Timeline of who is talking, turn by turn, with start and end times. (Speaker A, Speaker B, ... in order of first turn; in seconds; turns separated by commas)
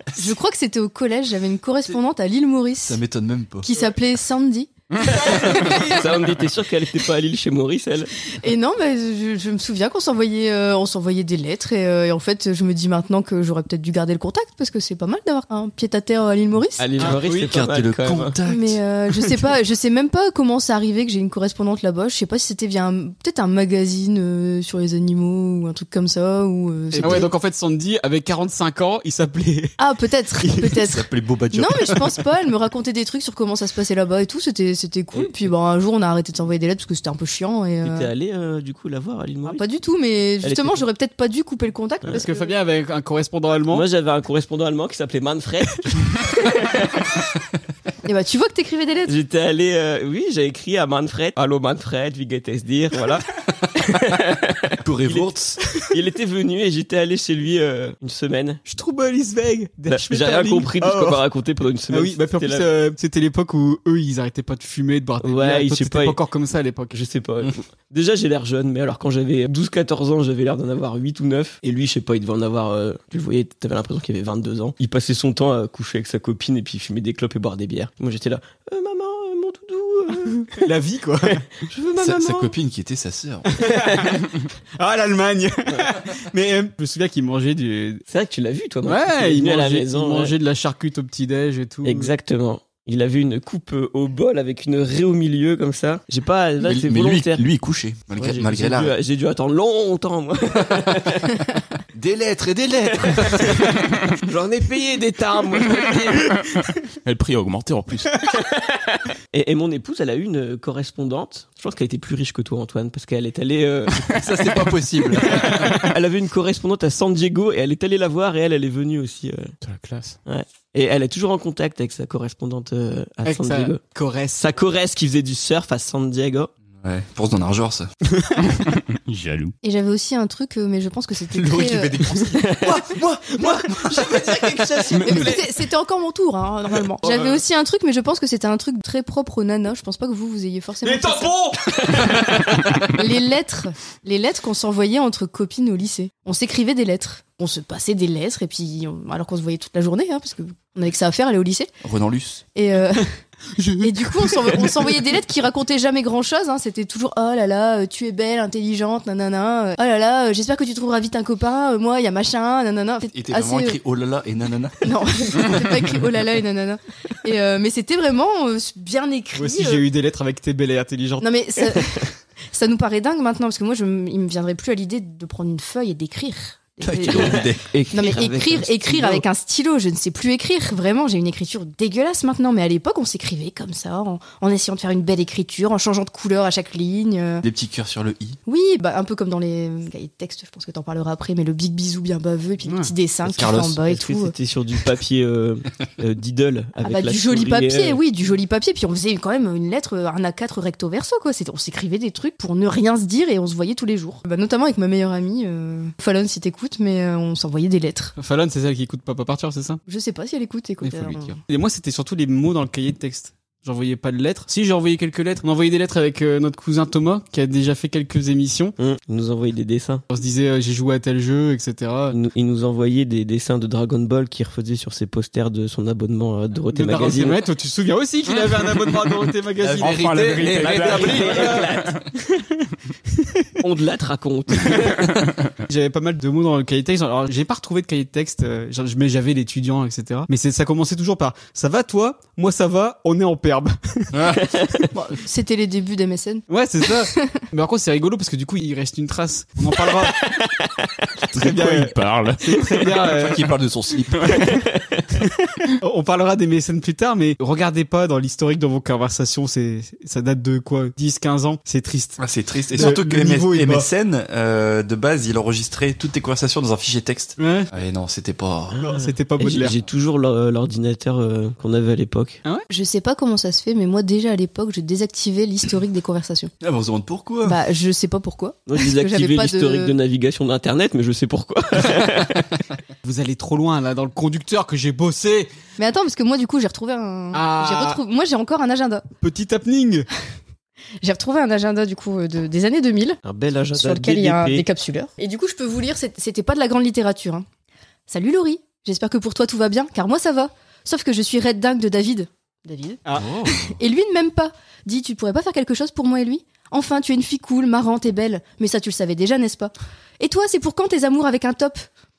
Speaker A: 0.2-3.0, Speaker B: 2.8-3.7, Speaker A: 3.6-4.7, Speaker C: 5.2-8.1, Speaker D: 5.3-5.8, Speaker A: 8.4-16.9, Speaker C: 16.8-18.4, Speaker D: 17.0-17.5, Speaker B: 17.0-18.8, Speaker A: 18.5-27.3, Speaker D: 26.9-29.8, Speaker A: 29.8-38.1, Speaker D: 30.4-30.8, Speaker B: 30.9-32.2, Speaker C: 37.8-39.6, Speaker A: 39.5-42.5, Speaker C: 40.4-40.8, Speaker D: 42.1-43.9, Speaker C: 43.7-47.1, Speaker A: 48.1-49.1, Speaker C: 49.1-53.2, Speaker C: 53.8-55.3, Speaker B: 54.8-55.6, Speaker C: 55.9-58.6, Speaker D: 58.6-61.2, Speaker C: 59.9-62.7, Speaker D: 61.9-67.0, Speaker C: 65.2-66.2, Speaker C: 66.9-80.5, Speaker D: 80.5-81.4, Speaker C: 81.7-82.5, Speaker B: 82.0-83.5, Speaker D: 83.5-84.2, Speaker C: 83.6-84.1, Speaker D: 84.8-88.0, Speaker C: 88.1-90.3, Speaker D: 88.9-92.1, Speaker C: 91.8-97.4, Speaker B: 96.6-98.9, Speaker C: 98.2-101.3, Speaker B: 101.9-103.7, Speaker C: 104.3-106.1, Speaker D: 105.5-106.0, Speaker E: 107.0-108.2, Speaker C: 109.3-114.0, Speaker B: 114.0-115.8, Speaker C: 115.3-119.5, Speaker E: 119.6-120.2, Speaker C: 120.3-123.8, Speaker D: 123.2-124.4, Speaker C: 124.4-126.5, Speaker B: 126.8-127.9, Speaker E: 128.4-129.5, Speaker A: 129.6-132.0, Speaker B: 131.3-135.4, Speaker C: 132.4-132.7, Speaker A: 135.0-141.5, Speaker D: 140.8-141.5, Speaker A: 143.0-151.7, Speaker B: 151.8-152.4, Speaker A: 152.5-153.1, Speaker D: 153.6-154.9, Speaker A: 153.8-163.8, Speaker B: 163.1-165.4, Speaker A: 164.8-169.8, Speaker D: 169.3-171.2, Speaker A: 171.2-177.4, Speaker B: 176.8-177.6, Speaker C: 176.9-179.2, Speaker A: 177.9-187.4, Speaker B: 187.4-188.4, Speaker A: 188.5-194.3, Speaker D: 192.7-192.9, Speaker C: 193.2-198.0, Speaker A: 196.8-208.2, Speaker D: 208.2-209.8, Speaker A: 209.9-211.4, Speaker D: 210.8-218.8, Speaker C: 218.8-220.0, Speaker D: 220.1-222.2, Speaker C: 222.1-227.4, Speaker D: 226.7-231.7, Speaker B: 229.6-231.5, Speaker E: 229.8-231.9, Speaker C: 230.6-232.0, Speaker D: 233.2-233.4, Speaker C: 233.6-235.0, Speaker D: 235.7-244.1, Speaker B: 244.1-244.5, Speaker A: 245.0-246.4, Speaker D: 246.5-250.2, Speaker A: 247.1-247.4, Speaker C: 250.2-250.9, Speaker D: 251.3-253.5, Speaker E: 251.4-252.4, Speaker B: 253.1-254.4, Speaker C: 254.3-255.0, Speaker D: 255.8-262.2, Speaker B: 262.2-268.8, Speaker D: 262.7-263.9, Speaker D: 267.4-267.7, Speaker C: 268.8-272.4, Speaker D: 268.8-269.8, Speaker A: 272.7-276.5, Speaker B: 276.6-277.6, Speaker A: 277.4-279.9, Speaker C: 278.7-282.4, Speaker D: 283.0-285.5, Speaker A: 285.8-289.1, Speaker D: 287.3-288.0, Speaker D: 289.2-290.1, Speaker A: 291.0-293.2, Speaker C: 293.2-294.6, Speaker A: 293.7-297.5, Speaker A: 298.1-303.0, Speaker B: 303.2-303.8, Speaker A: 303.6-311.9